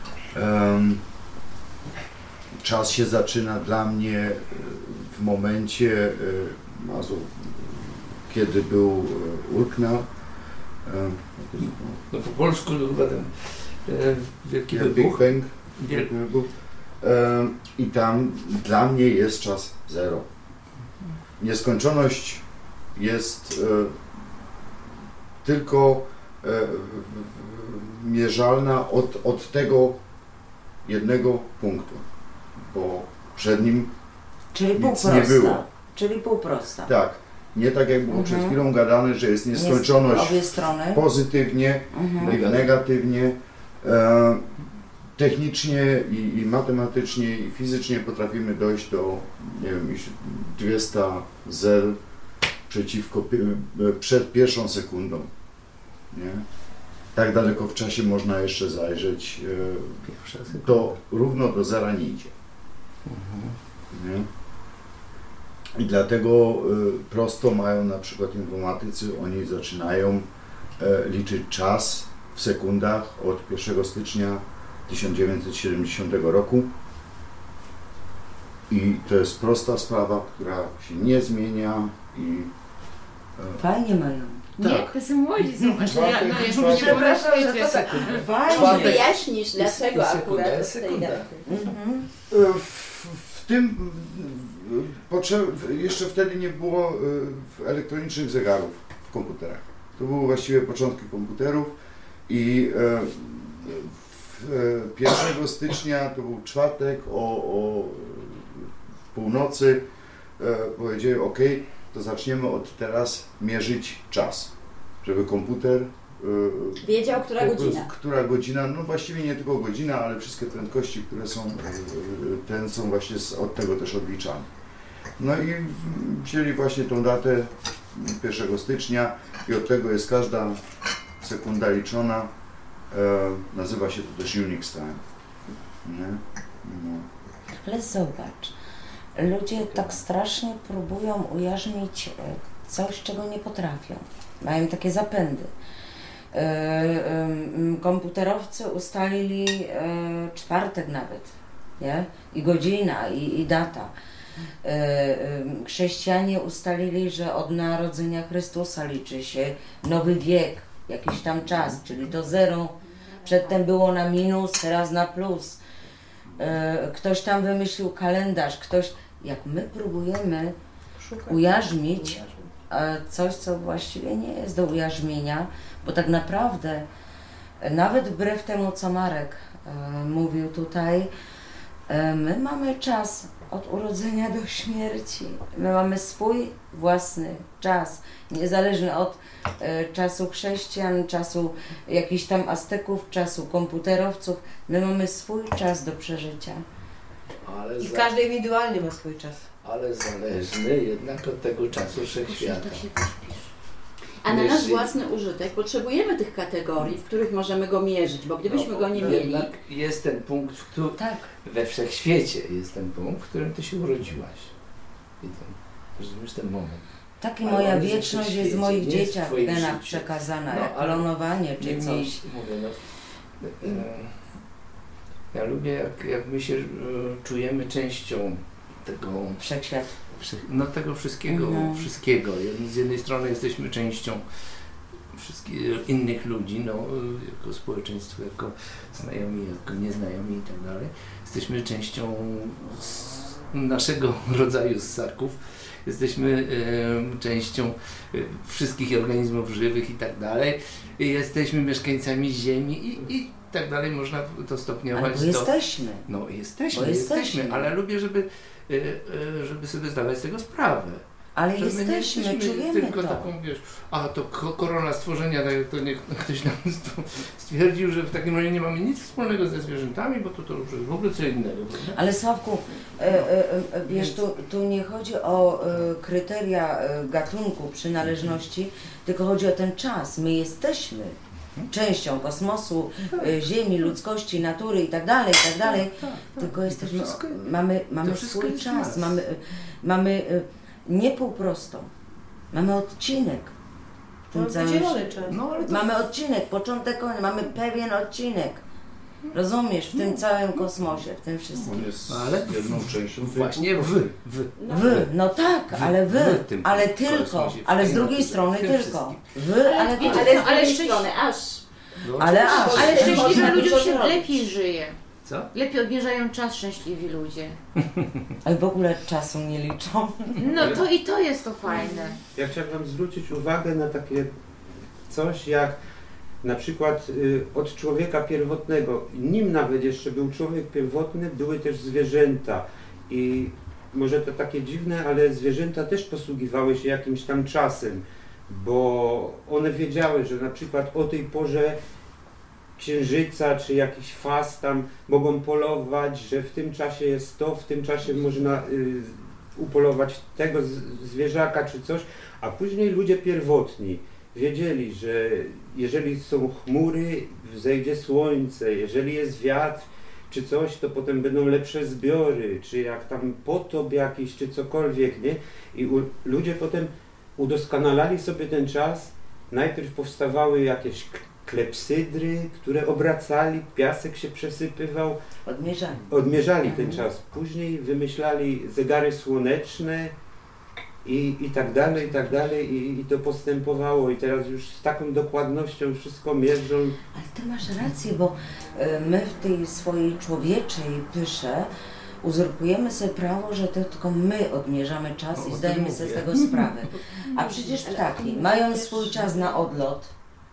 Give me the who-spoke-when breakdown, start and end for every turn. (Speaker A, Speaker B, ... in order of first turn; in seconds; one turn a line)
Speaker A: 0.3-1.0
Speaker A: 2.6-10.1
Speaker A: 10.8-12.0
Speaker B: 11.6-16.1
Speaker A: 14.7-20.3
Speaker A: 21.4-22.4
Speaker A: 22.9-24.0
Speaker A: 25.4-30.0
Speaker A: 30.8-32.0
Speaker A: 32.6-33.9
Speaker C: 34.5-36.9
Speaker A: 34.8-35.6
Speaker A: 36.9-44.4
Speaker C: 38.1-38.5
Speaker C: 39.5-41.0
Speaker C: 41.9-42.4
Speaker B: 42.2-42.7
Speaker A: 45.2-52.0
Speaker A: 52.7-55.3
Speaker A: 56.1-56.4
Speaker A: 57.1-62.3
Speaker B: 60.0-60.9
Speaker B: 63.0-63.5
Speaker A: 63.9-64.3
Speaker A: 65.8-70.2
Speaker A: 70.8-76.7
Speaker A: 78.7-82.5
Speaker A: 83.3-83.6
Speaker C: 83.6-84.5
Speaker D: 84.6-88.2
Speaker A: 84.6-84.9
Speaker C: 85.7-89.1
Speaker A: 85.8-87.0
Speaker B: 87.9-89.0
Speaker E: 88.5-91.5
Speaker B: 89.5-91.3
Speaker C: 91.5-92.1
Speaker A: 92.3-101.7
Speaker A: 102.3-109.8
Speaker A: 110.4-114.5
Speaker A: 115.0-124.5
Speaker E: 116.8-117.9
Speaker A: 125.2-130.6
Speaker A: 131.2-132.3
Speaker A: 132.9-135.0
Speaker A: 135.8-137.1
Speaker C: 137.5-138.5
Speaker C: 139.2-145.5
Speaker C: 146.3-153.9
Speaker C: 154.6-165.6
Speaker C: 166.4-170.6
Speaker F: 171.0-172.5
Speaker C: 171.2-176.8
Speaker C: 177.6-181.1
Speaker C: 181.9-196.6
Speaker B: 197.4-198.1
Speaker F: 197.8-199.5
Speaker B: 199.6-202.8
Speaker D: 202.3-203.5
Speaker E: 204.2-209.5
Speaker B: 204.3-204.9
Speaker C: 208.5-209.1
Speaker B: 208.9-214.5
Speaker C: 210.9-211.3
Speaker B: 215.2-216.8
Speaker C: 217.2-222.2
Speaker B: 217.4-221.1
Speaker B: 221.6-222.8
Speaker B: 223.4-224.3
Speaker B: 225.3-229.4
Speaker C: 229.4-229.9
Speaker B: 230.2-234.2
Speaker C: 231.3-231.9
Speaker B: 235.1-255.5
Speaker C: 254.9-256.1
Speaker B: 256.1-261.0
Speaker C: 256.7-257.7
Speaker C: 261.4-263.3
Speaker B: 261.6-272.0
Speaker C: 271.9-281.2
Speaker B: 273.9-274.2
Speaker C: 281.7-291.9
Speaker B: 283.1-283.3
Speaker B: 285.6-287.4
Speaker B: 288.0-289.2
Speaker C: 292.5-293.5
Speaker C: 294.3-295.0
Speaker F: 294.3-295.4
Speaker B: 295.3-295.9
Speaker C: 295.6-298.6
Speaker C: 299.3-301.8
Speaker B: 299.9-300.7
Speaker A: 301.7-303.9
Speaker B: 302.1-305.1
Speaker E: 304.6-305.0
Speaker C: 304.7-310.5
Speaker B: 305.7-309.4
Speaker D: 309.6-311.1
Speaker E: 310.0-311.6
Speaker B: 312.0-313.7
Speaker C: 312.2-313.5
Speaker E: 312.3-314.4
Speaker D: 312.7-315.0
Speaker B: 315.2-315.5
Speaker D: 315.5-317.6
Speaker C: 318.4-320.7
Speaker D: 320.4-322.2
Speaker B: 320.6-320.8
Speaker G: 322.3-324.3
Speaker G: 325.1-325.8
Speaker G: 326.4-341.8
Speaker G: 342.8-375.2
Speaker C: 375.4-376.1
Speaker G: 376.1-380.1
Speaker C: 376.6-377.1
Speaker G: 381.0-387.0
Speaker C: 387.1-391.7
Speaker C: 392.2-400.1
Speaker B: 395.4-396.9
Speaker E: 398.1-399.3